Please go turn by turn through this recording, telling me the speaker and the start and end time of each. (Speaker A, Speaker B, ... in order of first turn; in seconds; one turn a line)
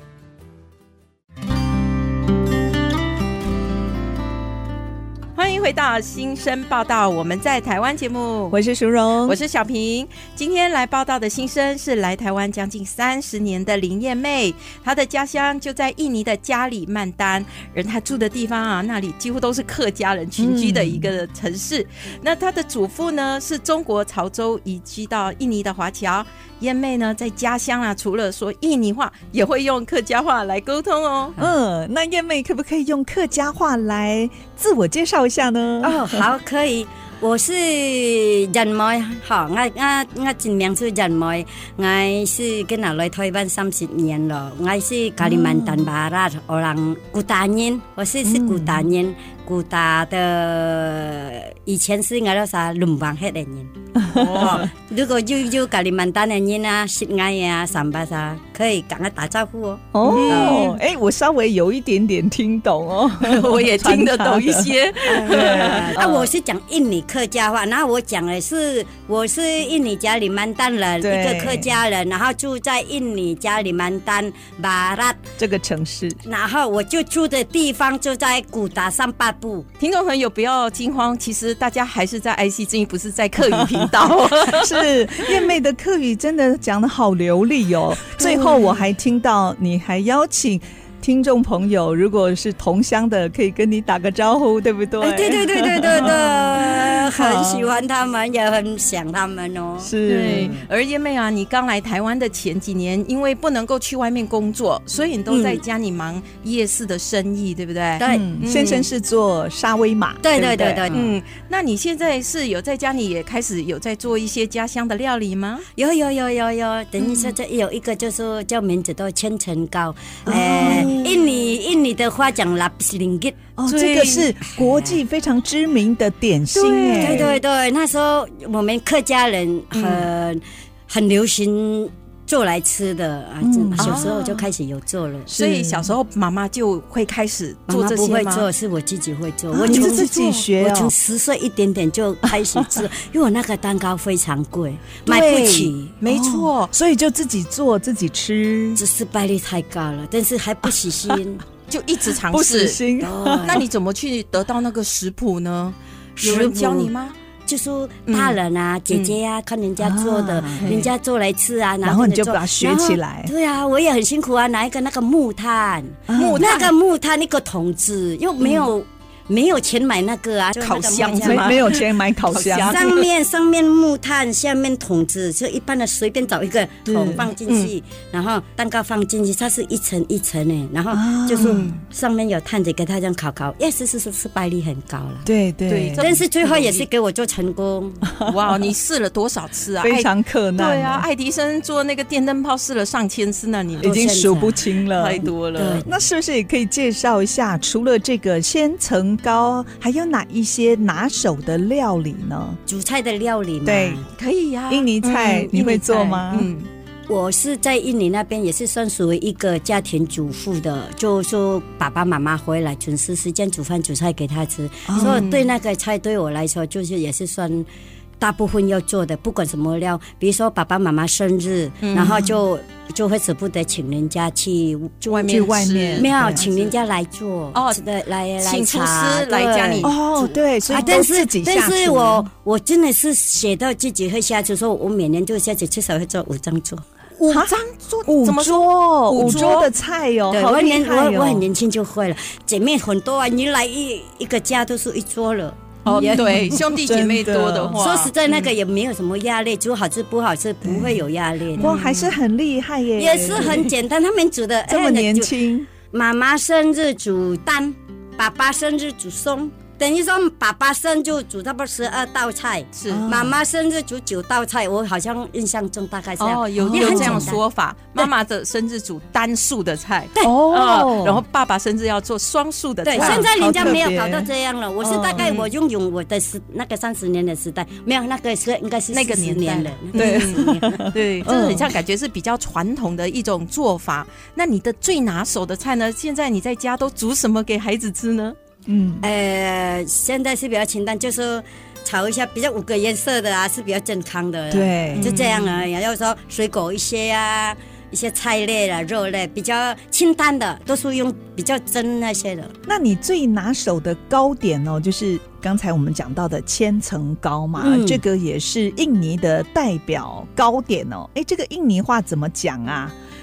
Speaker A: 5.3-8.6
Speaker B: 8.5-9.4
Speaker A: 9.2-31.3
Speaker B: 20.4-21.1
Speaker B: 31.4-36.2
Speaker C: 35.8-60.7
Speaker B: 45.2-45.9
Speaker B: 48.2-48.9
Speaker B: 54.0-54.7
Speaker A: 54.1-54.6
Speaker B: 59.9-66.3
Speaker A: 60.0-60.8
Speaker A: 63.2-65.9
Speaker C: 65.1-75.2
Speaker B: 71.0-71.7
Speaker B: 75.4-76.2
Speaker C: 76.2-79.7
Speaker A: 79.8-85.4
Speaker B: 83.4-97.7
Speaker C: 95.0-99.9
Speaker B: 99.8-100.6
Speaker A: 100.0-108.8
Speaker C: 105.3-105.6
Speaker C: 108.0-108.3
Speaker B: 108.0-110.9
Speaker C: 110.2-111.1
Speaker A: 110.9-115.6
Speaker C: 115.8-123.4
Speaker A: 117.0-117.3
Speaker B: 120.2-121.2
Speaker A: 120.6-121.0
Speaker B: 123.6-127.3
Speaker A: 123.7-124.3
Speaker C: 124.5-125.0
Speaker C: 126.5-135.3
Speaker A: 126.7-127.4
Speaker A: 129.7-130.1
Speaker B: 133.4-134.2
Speaker A: 133.8-134.4
Speaker B: 135.3-135.9
Speaker A: 135.3-138.5
Speaker C: 137.7-145.9
Speaker B: 139.5-140.9
Speaker A: 139.7-140.3
Speaker B: 142.3-142.8
Speaker A: 145.1-146.7
Speaker B: 145.5-148.8
Speaker C: 148.8-151.4
Speaker A: 151.7-152.8
Speaker B: 152.2-153.6
Speaker C: 153.0-153.6
Speaker A: 153.4-157.1
Speaker C: 156.2-156.9
Speaker C: 157.4-171.7
Speaker A: 158.1-158.4
Speaker B: 159.8-160.8
Speaker A: 160.6-160.9
Speaker B: 161.8-163.3
Speaker B: 166.1-166.5
Speaker A: 166.1-166.7
Speaker A: 168.4-168.7
Speaker A: 170.6-173.1
Speaker B: 171.2-172.8
Speaker C: 172.6-185.3
Speaker B: 176.8-177.3
Speaker B: 180.9-181.7
Speaker A: 181.4-181.8
Speaker B: 185.2-186.0
Speaker A: 185.7-186.9
Speaker C: 186.0-188.1
Speaker B: 188.1-188.6
Speaker A: 188.2-193.9
Speaker B: 189.8-191.1
Speaker B: 193.8-195.3
Speaker C: 193.8-194.6
Speaker A: 194.9-195.8
Speaker C: 195.3-195.9
Speaker B: 195.8-202.6
Speaker C: 202.7-204.0
Speaker B: 203.6-204.0
Speaker A: 204.2-206.7
Speaker B: 204.7-206.5
Speaker C: 207.1-217.7
Speaker B: 214.9-215.2
Speaker A: 215.0-215.5
Speaker C: 218.2-236.8
Speaker A: 221.8-222.3
Speaker A: 225.1-226.7
Speaker B: 225.2-226.4
Speaker A: 227.5-227.8
Speaker A: 228.4-229.9
Speaker B: 229.8-232.3
Speaker A: 237.2-239.7
Speaker B: 237.3-241.5
Speaker C: 239.2-239.6
Speaker C: 240.3-246.6
Speaker A: 245.8-248.5
Speaker B: 245.9-247.8
Speaker C: 247.7-251.7
Speaker B: 250.6-251.0
Speaker A: 251.6-252.1
Speaker B: 251.6-253.7
Speaker C: 253.0-255.3
Speaker B: 254.7-255.7
Speaker C: 255.9-267.4
Speaker A: 262.8-263.1
Speaker B: 262.9-263.3
Speaker A: 266.2-273.8
Speaker B: 266.6-267.3
Speaker C: 270.2-271.2
Speaker C: 272.8-280.9
Speaker B: 272.9-274.3
Speaker B: 274.8-275.3
Speaker A: 275.1-275.5
Speaker A: 278.9-288.4
Speaker B: 279.9-281.7
Speaker B: 288.7-289.0
Speaker C: 289.0-302.5
Speaker B: 294.5-295.1
Speaker A: 295.0-295.6
Speaker B: 302.7-312.9
Speaker C: 307.6-308.0